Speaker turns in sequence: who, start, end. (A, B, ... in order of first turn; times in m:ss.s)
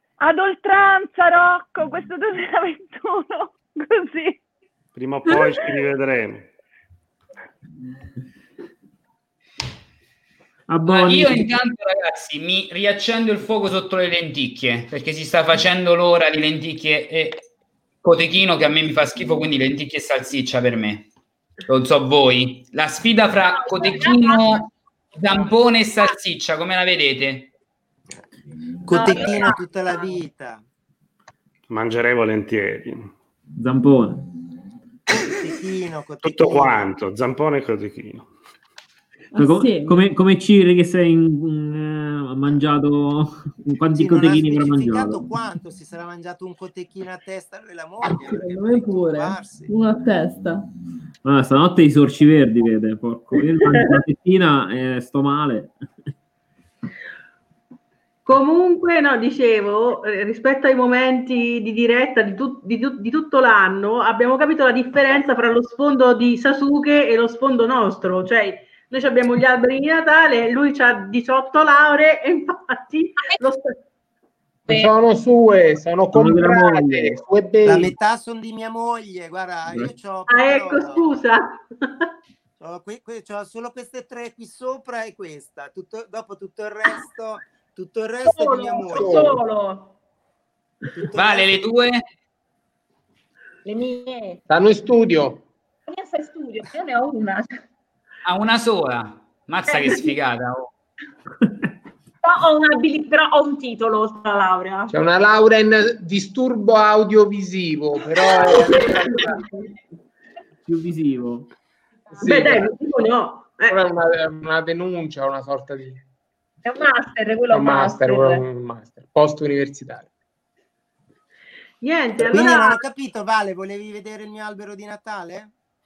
0:00.2-0:04.4 A
0:05.0-0:06.5 B
0:10.7-0:11.6 C
0:10.9-0:17.4 D
0:18.0-0:21.1 D
0:21.7-0:27.5 D
0:23.3-0:24.7 E
0:28.9-0:30.6 F
0:28.9-0:30.1 E
0:31.7-0:33.1 B
0:33.6-0:34.3 C
0:35.3-0:36.9 F
0:36.2-0:38.3 B
0:39.4-0:45.3 C
0:39.4-0:40.0 G
0:43.9-0:49.8 F
0:48.1-0:50.6 G
0:51.2-0:55.8 C
0:58.3-1:13.8 H
1:14.7-1:17.9 I
1:16.1-1:17.3 C
1:17.6-1:21.0 F
1:20.3-1:22.1 H
1:22.6-1:29.4 F
1:28.3-1:29.9 E
1:29.0-1:29.3 I
1:31.0-1:31.6 F
1:31.2-1:32.0 D
1:33.6-1:34.4 E
1:34.5-1:35.4 I
1:35.9-1:37.5 E
1:38.2-1:40.7 D
1:42.2-1:44.9 E
1:44.9-1:49.4 I
1:50.6-1:51.5 C
1:52.2-1:52.7 I
1:52.2-1:53.8 H
1:53.7-1:56.0 I
1:56.6-1:58.4 E
1:57.5-2:00.1 I
2:01.8-2:02.8 H
2:02.2-2:05.5 F